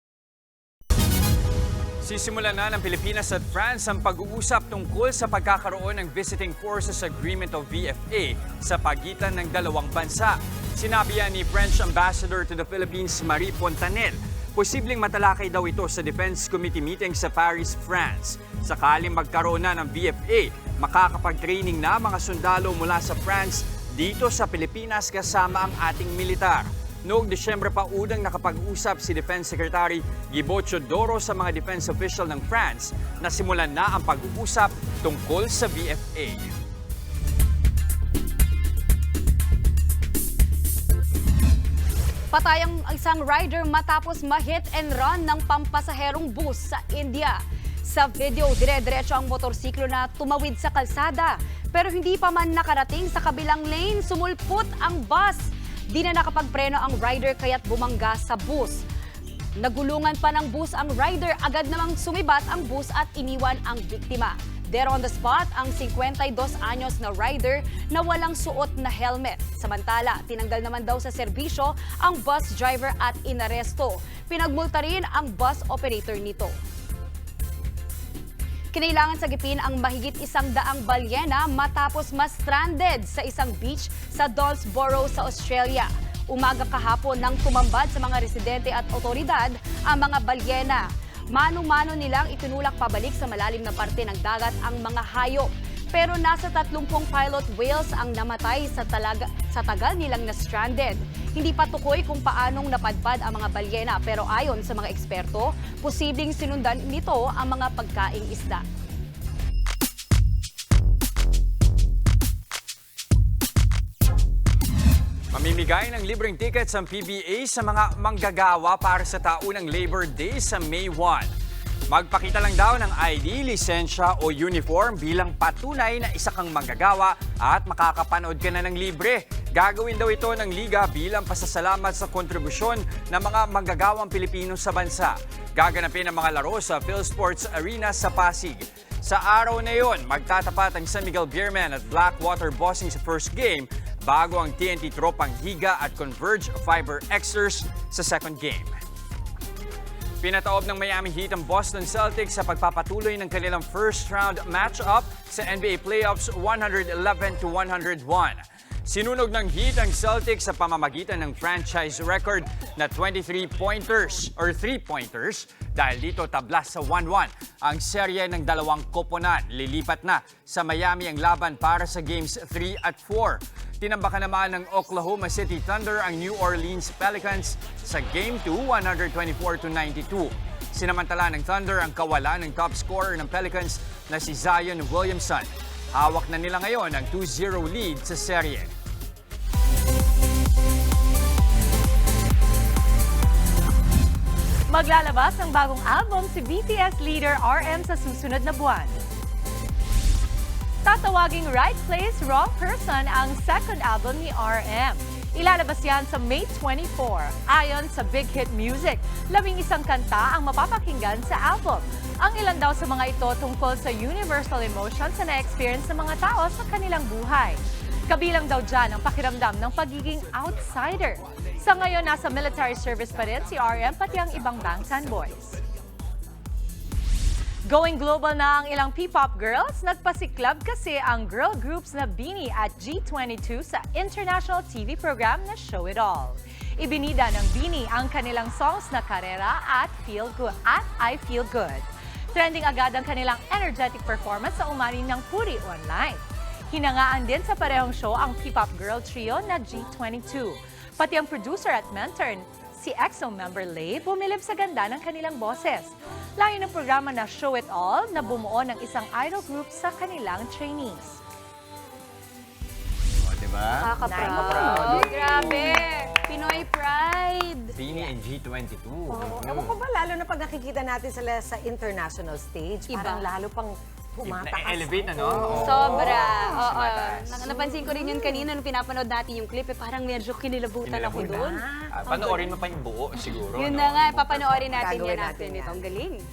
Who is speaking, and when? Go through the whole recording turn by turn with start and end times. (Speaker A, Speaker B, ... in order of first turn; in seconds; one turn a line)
Speaker A: 2.0-36.5
Speaker B: 42.3-58.8
Speaker B: 59.6-76.5
Speaker B: 78.7-108.6
Speaker A: 115.3-121.3
Speaker A: 121.9-148.7
Speaker A: 150.2-188.7
Speaker C: 194.7-199.0
Speaker C: 200.8-225.6
Speaker C: 227.7-261.2
Speaker A: 263.3-265.7
Speaker B: 263.8-267.8
Speaker D: 263.9-265.8
Speaker A: 267.8-269.7
Speaker D: 269.1-276.4
Speaker B: 272.9-273.2
Speaker A: 274.2-277.4
Speaker B: 275.5-282.5
Speaker D: 277.5-278.4
Speaker A: 280.9-281.4
Speaker D: 281.1-282.6
Speaker A: 281.9-284.4
Speaker B: 283.4-286.2
Speaker D: 284.7-286.0